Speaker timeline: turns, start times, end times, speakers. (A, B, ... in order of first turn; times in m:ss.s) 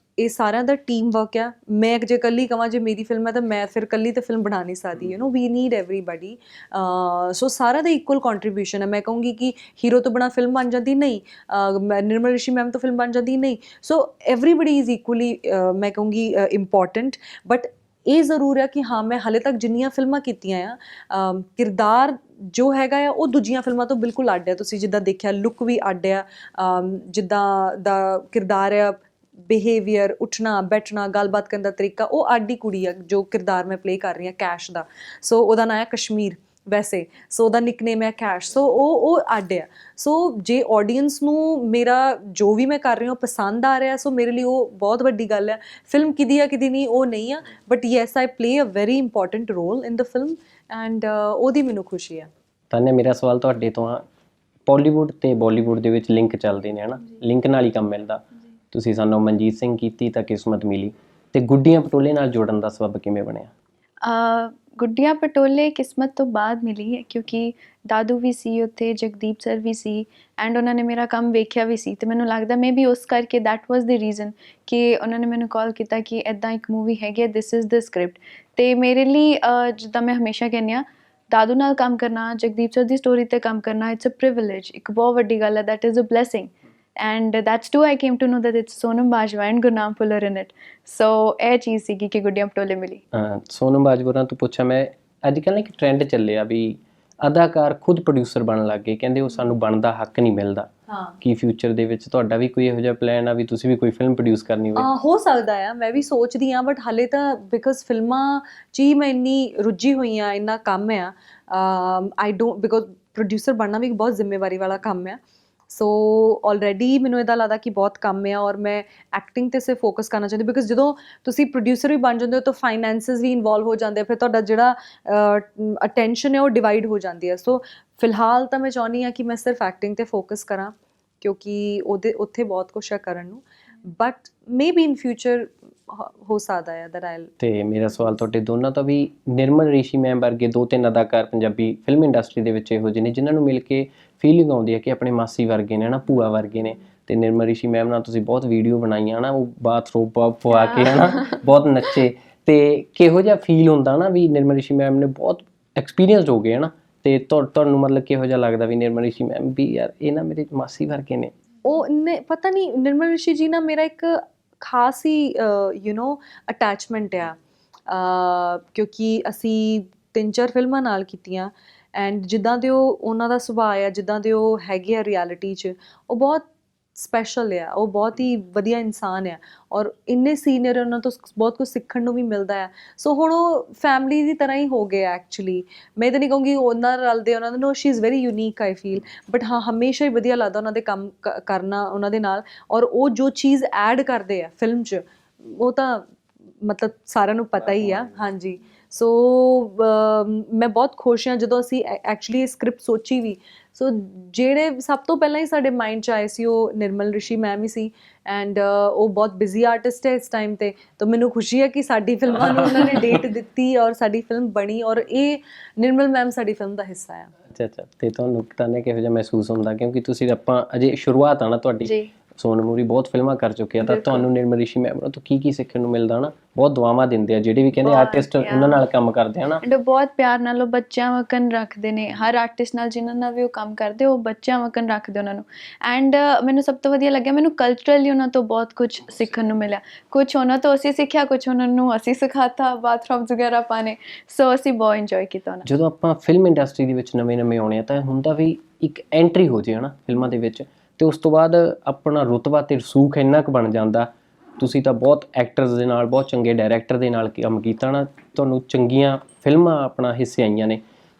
0:00.2-0:52.3 A
0:52.7-0:54.0 B
0:54.7-1:03.5 B
1:04.0-1:33.0 C
1:33.1-1:40.7 B
1:40.9-1:41.2 A
1:41.2-1:44.9 B
1:44.8-1:55.2 A
1:55.7-2:17.3 A
2:17.4-2:41.3 B
2:30.5-2:31.4 C
2:41.6-2:47.4 A
2:47.9-3:16.1 A
3:16.6-3:37.3 A
3:37.5-3:49.6 B
3:41.8-3:42.1 C
3:43.8-3:44.2 C
3:47.8-3:48.9 C
3:49.6-4:05.6 C
4:05.6-4:20.8 B